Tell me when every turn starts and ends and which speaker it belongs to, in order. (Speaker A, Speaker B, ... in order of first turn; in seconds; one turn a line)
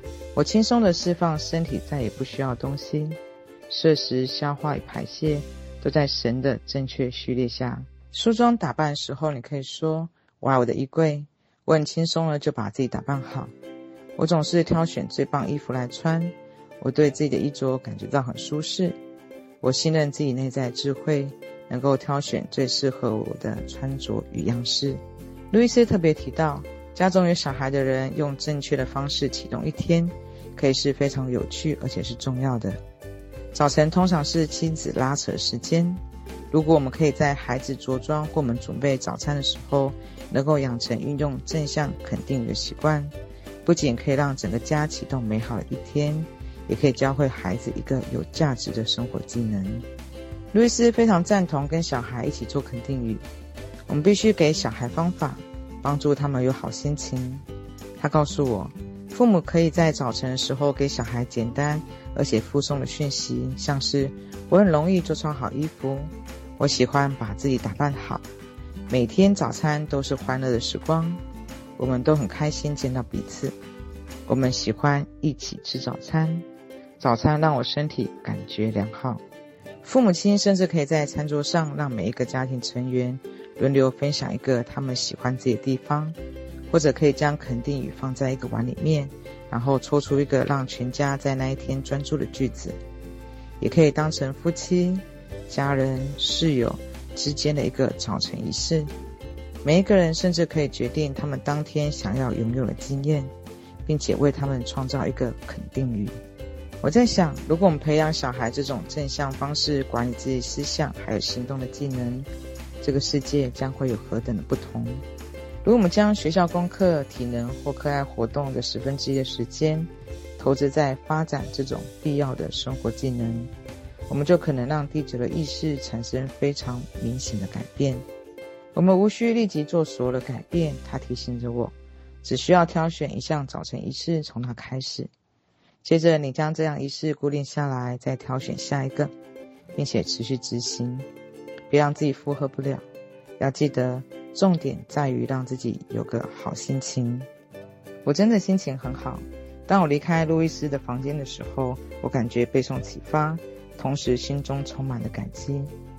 Speaker A: 0.3-13.5
Speaker A: 14.2-19.0
Speaker A: 19.6-32.8
Speaker A: 33.5-43.1
Speaker A: 43.6-49.9
Speaker A: 50.5-53.2
Speaker A: 53.9-57.4
Speaker A: 58.0-68.2
Speaker A: 68.9-71.2
Speaker A: 71.8-73.5
Speaker A: 74.3-76.4
Speaker A: 77.0-79.2
Speaker A: 79.8-86.2
Speaker A: 86.7-92.8
Speaker A: 93.6-98.9
Speaker A: 99.6-103.3
Speaker A: 103.8-106.2
Speaker A: 106.8-112.3
Speaker A: 112.8-115.0
Speaker A: 115.6-123.5
Speaker A: 124.1-128.1
Speaker A: 128.7-135.1
Speaker A: 135.8-139.1
Speaker A: 139.7-141.1
Speaker A: 141.7-142.8
Speaker A: 143.4-147.3
Speaker A: 148.0-155.7